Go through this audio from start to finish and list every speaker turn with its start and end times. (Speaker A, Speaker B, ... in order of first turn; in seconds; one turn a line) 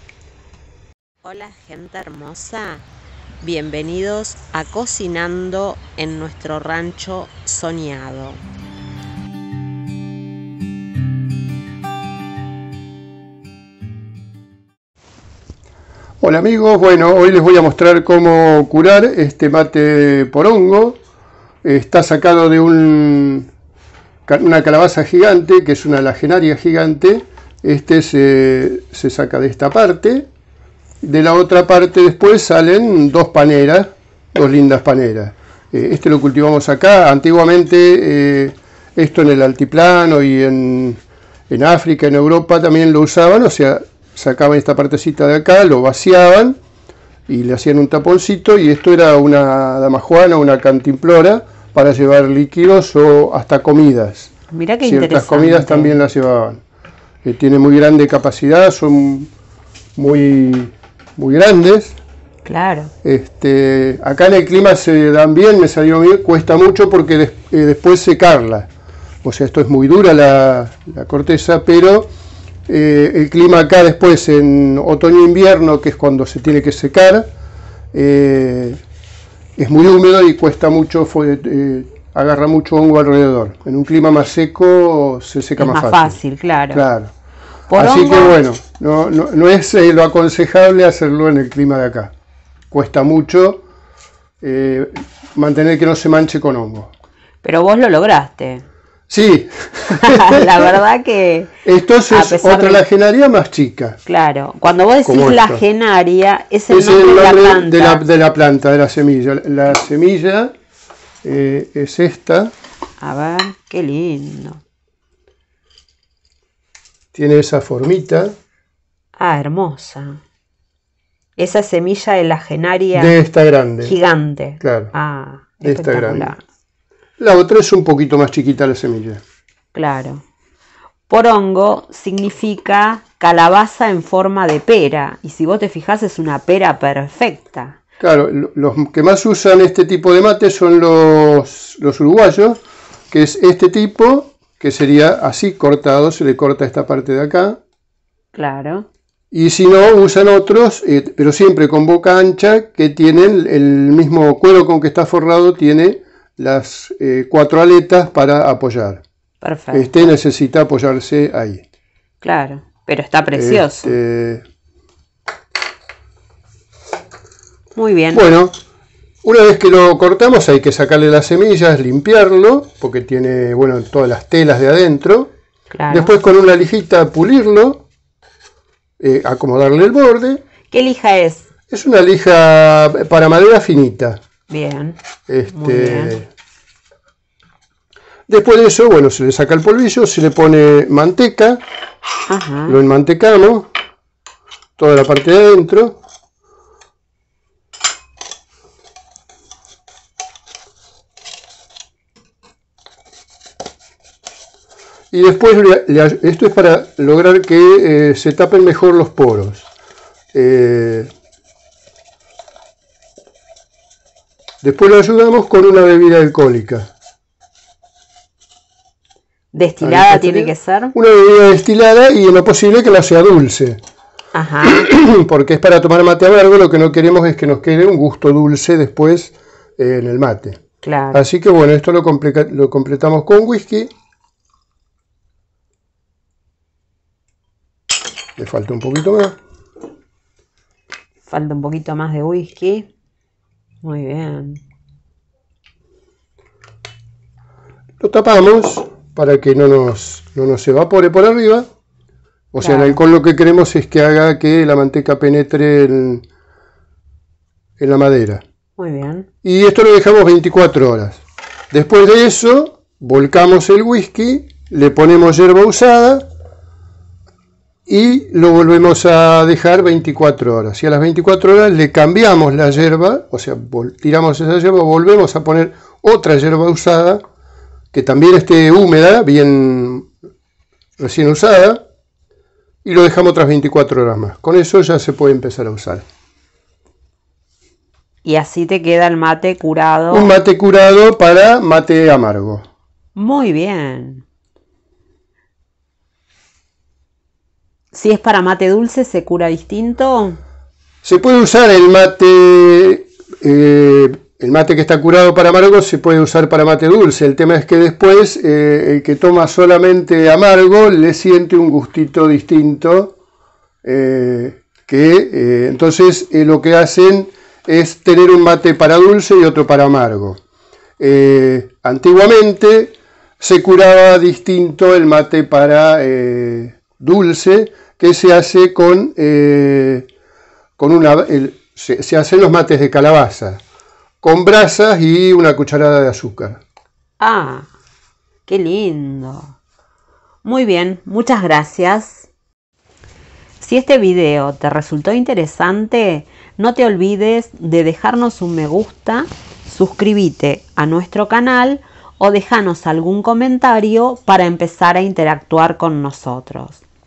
Speaker A: 1.2-2.9
Speaker A: 3.4-8.4
Speaker B: 16.2-21.0
Speaker B: 21.6-23.5
Speaker B: 24.3-30.3
Speaker B: 31.0-46.6
Speaker B: 47.3-54.3
Speaker A: 54.5-56.0
Speaker B: 54.8-56.6
Speaker B: 57.2-59.3
Speaker B: 60.0-62.0
Speaker A: 62.4-62.9
Speaker B: 63.0-68.7
Speaker B: 69.2-72.1
Speaker B: 72.7-77.3
Speaker B: 77.9-78.8
Speaker B: 79.6-86.2
Speaker A: 85.6-86.8
Speaker B: 86.7-87.1
Speaker A: 87.7-88.4
Speaker B: 87.8-92.1
Speaker B: 92.7-93.6
Speaker B: 94.4-96.9
Speaker A: 97.4-98.6
Speaker B: 99.1-100.7
Speaker A: 100.0-101.5
Speaker B: 101.6-104.0
Speaker A: 102.1-102.8
Speaker A: 104.0-108.0
Speaker B: 105.0-105.6
Speaker B: 106.7-110.5
Speaker B: 111.2-112.5
Speaker A: 113.0-114.6
Speaker B: 117.1-118.3
Speaker A: 119.2-120.2
Speaker A: 121.4-123.2
Speaker B: 122.9-123.9
Speaker A: 123.8-126.4
Speaker B: 124.6-124.9
Speaker B: 125.6-126.3
Speaker B: 127.2-129.2
Speaker A: 129.7-130.2
Speaker A: 131.1-137.8
Speaker B: 138.0-142.6
Speaker B: 143.1-147.6
Speaker A: 148.3-148.8
Speaker B: 149.3-159.0
Speaker A: 159.4-160.1
Speaker B: 159.7-161.6
Speaker A: 162.2-164.0
Speaker B: 163.3-164.4
Speaker A: 167.8-168.2
Speaker B: 168.1-168.5
Speaker B: 169.2-175.3
Speaker A: 175.7-176.2
Speaker B: 175.9-177.8
Speaker B: 179.0-180.4
Speaker A: 180.7-181.5
Speaker B: 181.7-184.2
Speaker A: 184.5-186.2
Speaker B: 185.3-186.3
Speaker B: 188.3-191.6
Speaker A: 192.3-192.8
Speaker B: 192.7-193.7
Speaker B: 194.8-196.0
Speaker B: 205.1-209.7
Speaker B: 210.3-211.1
Speaker B: 214.6-216.9
Speaker A: 219.5-220.9
Speaker B: 219.8-223.8
Speaker A: 224.3-224.9
Speaker B: 224.7-230.6
Speaker A: 230.8-231.2
Speaker B: 231.1-233.9
Speaker B: 238.4-239.3
Speaker A: 241.3-242.9
Speaker A: 243.8-244.6
Speaker B: 248.0-251.7
Speaker B: 252.5-256.2
Speaker A: 252.6-253.0
Speaker B: 257.8-258.4
Speaker A: 258.8-259.3
Speaker B: 259.4-266.2
Speaker B: 267.9-277.2
Speaker B: 277.9-280.1
Speaker B: 281.0-281.8
Speaker B: 282.8-286.1
Speaker A: 288.2-290.3
Speaker B: 290.1-292.6
Speaker A: 293.2-294.2
Speaker A: 297.9-300.4
Speaker B: 301.0-313.1
Speaker B: 313.8-320.4
Speaker B: 321.0-330.1
Speaker B: 330.8-333.6
Speaker B: 334.2-336.6
Speaker A: 337.2-337.7
Speaker A: 338.5-339.6
Speaker A: 340.4-342.3
Speaker A: 343.6-356.8